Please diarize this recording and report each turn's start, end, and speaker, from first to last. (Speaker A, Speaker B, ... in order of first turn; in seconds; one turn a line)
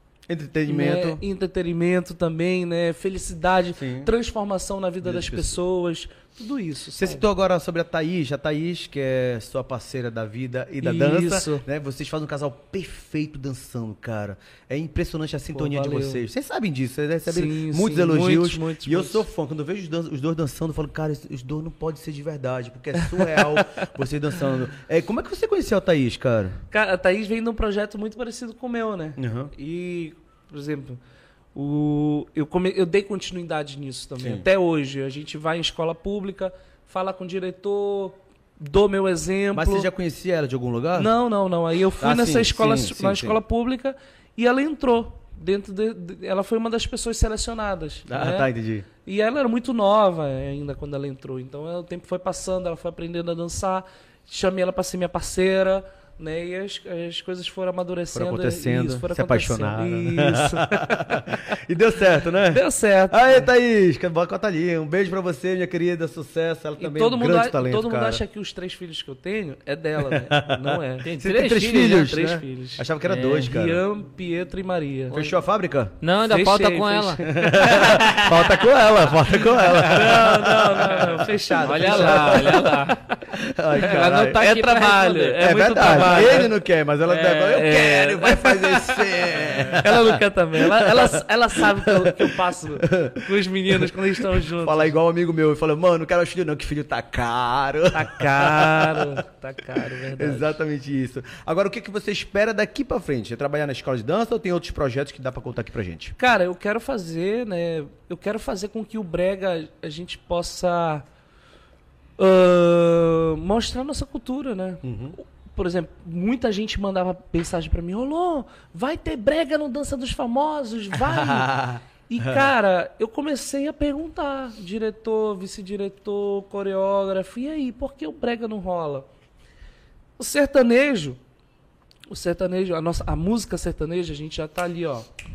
Speaker A: 0.3-1.2
Speaker B: 0.7-7.2
Speaker A: 3.8-4.1
Speaker A: 5.0-5.6
Speaker A: 7.0-26.6
Speaker B: 10.8-11.7
Speaker B: 15.5-16.2
Speaker B: 17.3-19.2
Speaker B: 23.0-23.6
Speaker B: 26.7-31.0
Speaker A: 29.2-29.5
Speaker B: 31.6-39.9
Speaker A: 34.2-34.5
Speaker A: 39.5-41.1
Speaker B: 41.0-48.5
Speaker A: 42.0-43.4
Speaker A: 48.1-48.9
Speaker B: 49.0-61.5
Speaker A: 58.1-68.2
Speaker B: 62.5-63.5
Speaker B: 66.8-71.1
Speaker A: 70.0-73.8
Speaker C: 71.0-72.0
Speaker B: 71.7-72.8
Speaker C: 73.1-73.5
Speaker B: 73.4-75.3
Speaker A: 75.1-76.0
Speaker C: 76.0-78.9
Speaker B: 76.2-78.1
Speaker A: 77.2-82.5
Speaker C: 79.5-79.8
Speaker B: 79.5-83.0
Speaker C: 81.6-83.0
Speaker A: 83.4-84.5
Speaker C: 83.8-86.5
Speaker B: 83.8-86.5
Speaker A: 85.4-99.2
Speaker C: 87.1-87.9
Speaker B: 87.5-89.0
Speaker C: 89.3-89.8
Speaker B: 89.8-95.0
Speaker B: 97.9-100.6
Speaker A: 100.2-106.1
Speaker B: 106.2-111.0
Speaker B: 112.2-121.6
Speaker A: 114.8-115.2
Speaker A: 121.0-122.5
Speaker B: 122.1-129.1
Speaker B: 130.2-131.2
Speaker B: 132.1-135.1